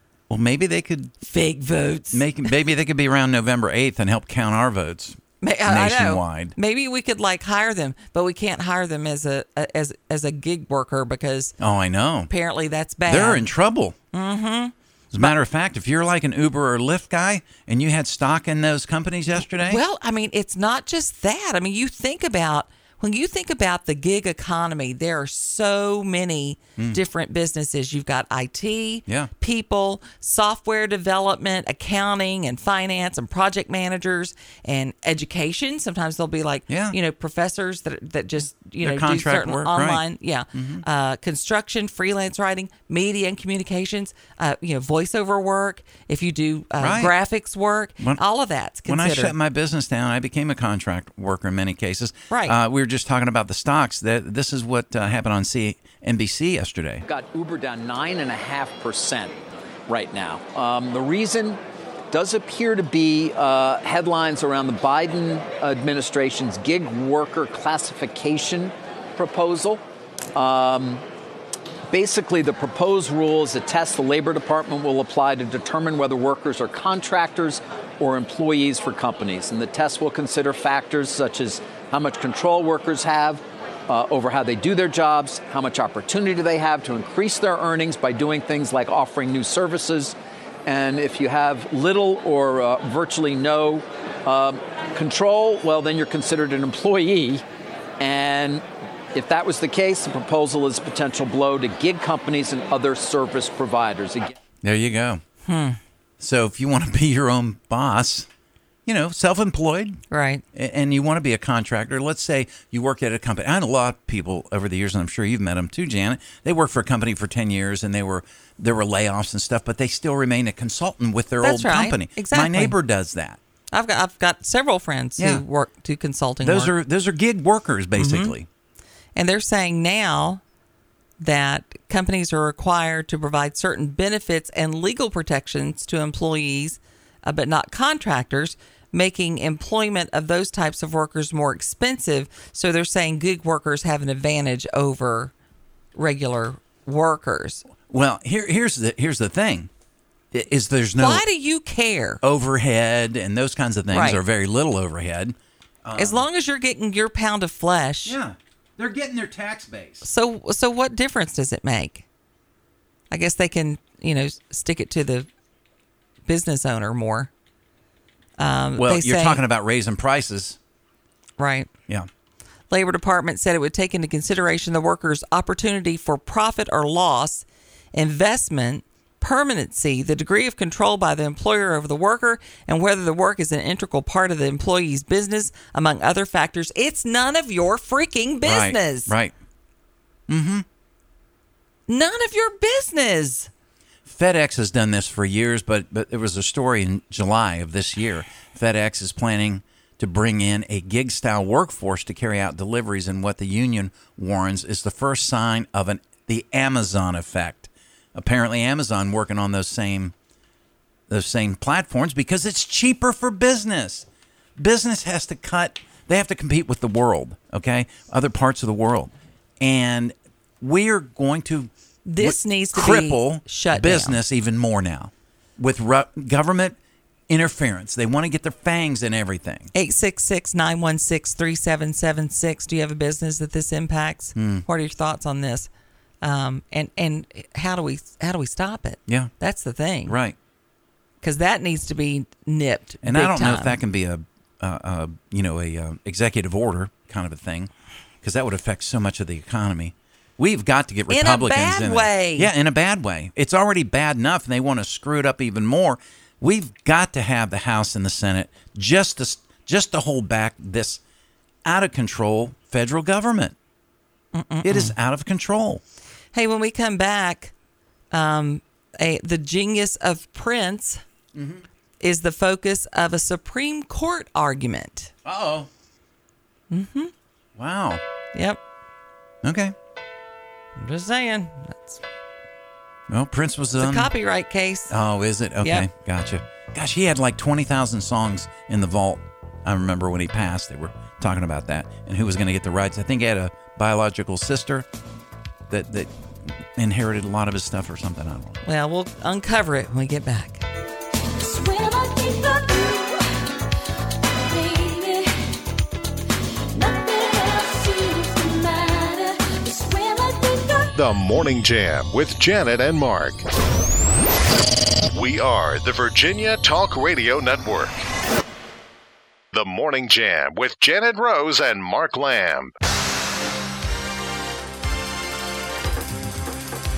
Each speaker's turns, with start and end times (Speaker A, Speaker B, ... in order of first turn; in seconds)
Speaker A: 0.3-1.1, 2.1-6.5, 11.6-12.3, 13.1-13.9, 15.1-19.8, 36.7-37.0, 38.8-40.8, 46.8-47.1, 48.9-57.0, 104.6-105.2, 106.2-108.3, 108.8-110.0, 110.5-123.4, 125.2-125.4, 126.4-128.5, 147.9-149.7, 150.3-151.2, 152.2-156.2, 158.0-160.0, 168.8-170.6, 188.4-189.3, 190.3-190.7, 194.0-210.1, 211.1-226.8, 227.3-229.7, 234.3-234.7, 239.1-239.3, 240.1-240.4, 243.0-247.7, 248.2-261.0, 261.6-263.5, 264.6-265.8, 271.3-271.6, 275.2-275.7, 277.6-278.0, 279.4-279.7, 283.1-284.1, 284.9-294.9, 295.7-296.1, 296.7-298.6
Speaker B: 1.2-2.3, 5.4-11.5, 12.3-13.5, 14.1-15.3, 19.4-49.3, 52.3-52.5, 105.4-105.8, 110.1-110.4, 121.4-122.8, 123.7-126.7, 128.0-128.3, 129.2-130.4, 131.2-145.3, 145.9-147.6, 151.0-152.2, 153.9-154.2, 155.9-158.2, 160.0-162.1, 163.1-165.3, 166.2-167.3, 168.4-169.4, 171.4-171.7, 172.7-189.1, 191.9-193.5, 222.1-224.2, 229.7-235.7, 236.2-240.2, 241.2-243.8, 251.1-252.5, 264.3-264.9, 266.3-267.5, 268.1-271.0, 272.0-275.1, 276.7-277.1, 278.3-278.6, 280.8-282.0, 283.8-284.9, 285.6-285.9, 298.6-300.6
Speaker C: 57.0-61.6, 62.1-69.8, 70.3-71.0, 71.9-97.4, 98.0-104.3
Speaker D: 301.4-303.4, 304.3-305.3, 306.7-310.9
Speaker E: 310.9-313.4, 315.1-317.9, 319.5-322.7